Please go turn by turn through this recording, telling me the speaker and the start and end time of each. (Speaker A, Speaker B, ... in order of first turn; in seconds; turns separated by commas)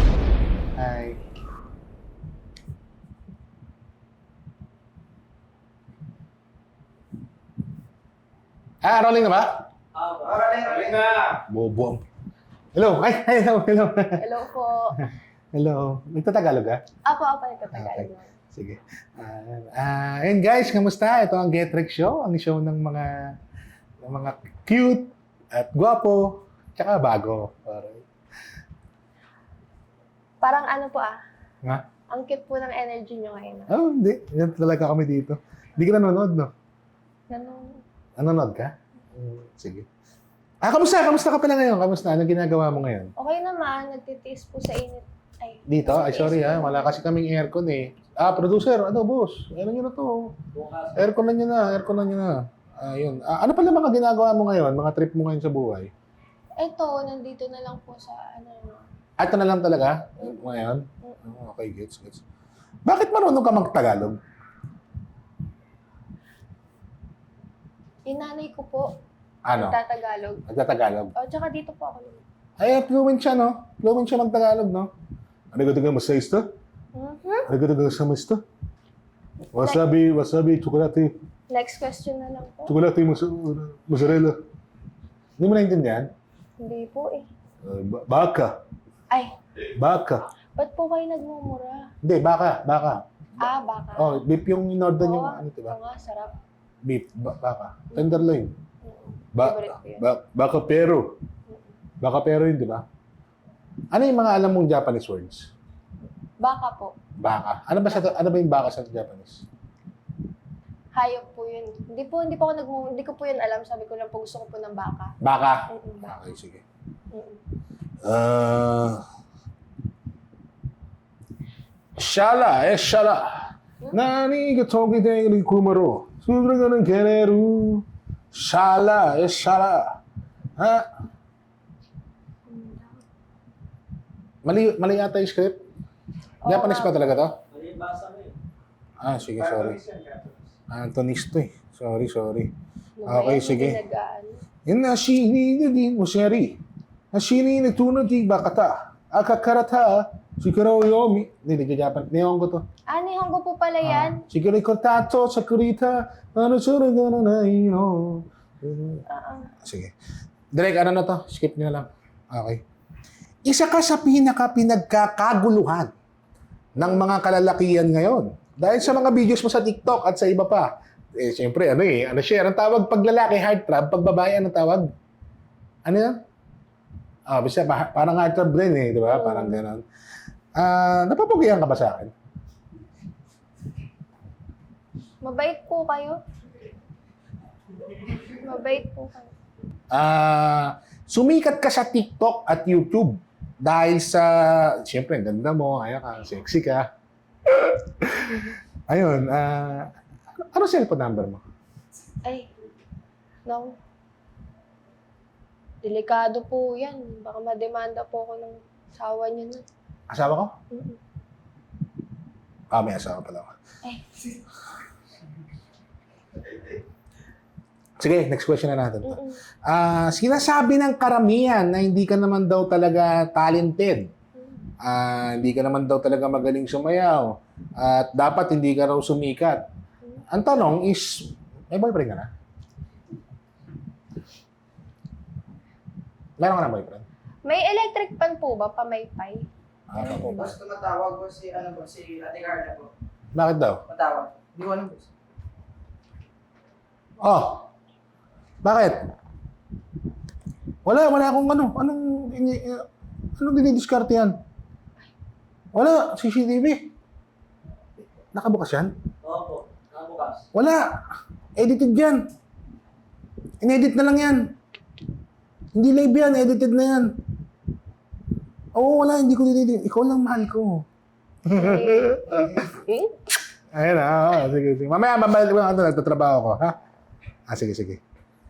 Speaker A: 0.8-1.2, Speaker A: 8.8-9.6, Speaker B: 10.0-11.4, Speaker A: 11.5-12.0, Speaker A: 12.8-14.3, Speaker C: 14.2-15.0, Speaker A: 15.0-16.8, Speaker C: 17.0-18.3, Speaker A: 17.7-23.4, Speaker A: 24.0-28.1, Speaker C: 30.4-31.2, Speaker C: 32.1-33.7, Speaker A: 33.7-36.5, Speaker C: 37.3-37.8, Speaker A: 38.2-39.9, Speaker A: 40.6-43.1, Speaker C: 43.1-47.0, Speaker A: 45.7-50.4, Speaker A: 50.9-55.9, Speaker C: 56.6-58.8, Speaker A: 59.2-62.2, Speaker A: 62.9-64.2, Speaker C: 68.0-69.0, Speaker A: 69.5-69.8, Speaker C: 69.5-70.4, Speaker A: 70.5-71.1, Speaker C: 71.1-72.2, Speaker A: 72.6-74.9, Speaker A: 75.5-76.5, Speaker C: 76.9-77.5, Speaker A: 77.5-78.4, Speaker A: 79.5-81.1, Speaker C: 81.5-82.7, Speaker A: 82.7-84.4, Speaker A: 85.4-86.1, Speaker C: 86.6-87.3, Speaker A: 87.6-88.6, Speaker A: 89.8-90.2, Speaker C: 90.5-91.9, Speaker A: 92.0-95.8, Speaker C: 93.4-94.2, Speaker C: 95.0-96.3, Speaker A: 96.8-98.5, Speaker C: 97.9-98.2, Speaker C: 98.8-100.0, Speaker A: 99.3-101.1, Speaker A: 102.0-102.8, Speaker A: 103.9-105.5, Speaker C: 106.4-106.9, Speaker A: 107.2-109.4, Speaker C: 110.9-115.2, Speaker A: 115.2-116.6, Speaker C: 115.7-116.1, Speaker C: 117.1-117.4, Speaker A: 118.0-119.0, Speaker A: 122.0-129.9, Speaker A: 130.6-130.9, Speaker C: 132.5-133.0, Speaker A: 134.4-135.6, Speaker C: 136.4-137.3, Speaker A: 136.5-137.3, Speaker B: 137.5-138.3, Speaker A: 139.0-139.8, Speaker B: 139.4-140.4, Speaker A: 140.7-142.5, Speaker C: 143.0-144.4, Speaker A: 143.1-143.8, Speaker A: 144.7-146.6, Speaker A: 147.1-152.6, Speaker C: 152.9-154.2, Speaker A: 153.8-159.0, Speaker C: 159.1-159.5, Speaker A: 159.6-159.9, Speaker A: 160.5-162.6, Speaker A: 163.4-165.9, Speaker A: 166.8-174.9, Speaker A: 175.8-176.2, Speaker A: 177.3-179.8, Speaker C: 179.1-179.6, Speaker A: 180.6-182.1, Speaker C: 185.2-186.2, Speaker C: 188.2-189.3, Speaker A: 189.9-196.9, Speaker A: 197.4-199.9, Speaker A: 200.5-201.4, Speaker C: 202.2-202.5, Speaker C: 203.4-203.8, Speaker C: 205.8-209.6, Speaker A: 210.1-210.5, Speaker C: 210.7-211.0, Speaker A: 212.7-213.5, Speaker C: 213.8-214.4, Speaker A: 218.0-224.1, Speaker C: 219.0-219.4, Speaker A: 224.8-229.6, Speaker A: 230.3-232.3, Speaker A: 236.4-237.0, Speaker C: 237.4-239.5, Speaker A: 239.9-240.5, Speaker B: 240.1-242.9, Speaker A: 243.3-243.8, Speaker B: 243.9-245.1, Speaker A: 247.2-247.6, Speaker A: 248.6-249.1, Speaker A: 250.8-252.8, Speaker A: 253.4-254.3, Speaker A: 255.7-256.8, Speaker A: 258.3-258.9, Speaker B: 259.3-260.4, Speaker A: 260.5-261.0, Speaker A: 261.6-262.2, Speaker A: 263.6-264.5, Speaker A: 265.7-267.2, Speaker A: 268.7-270.9, Speaker A: 271.4-272.7, Speaker C: 271.5-273.1, Speaker A: 273.7-276.8, Speaker A: 277.5-278.0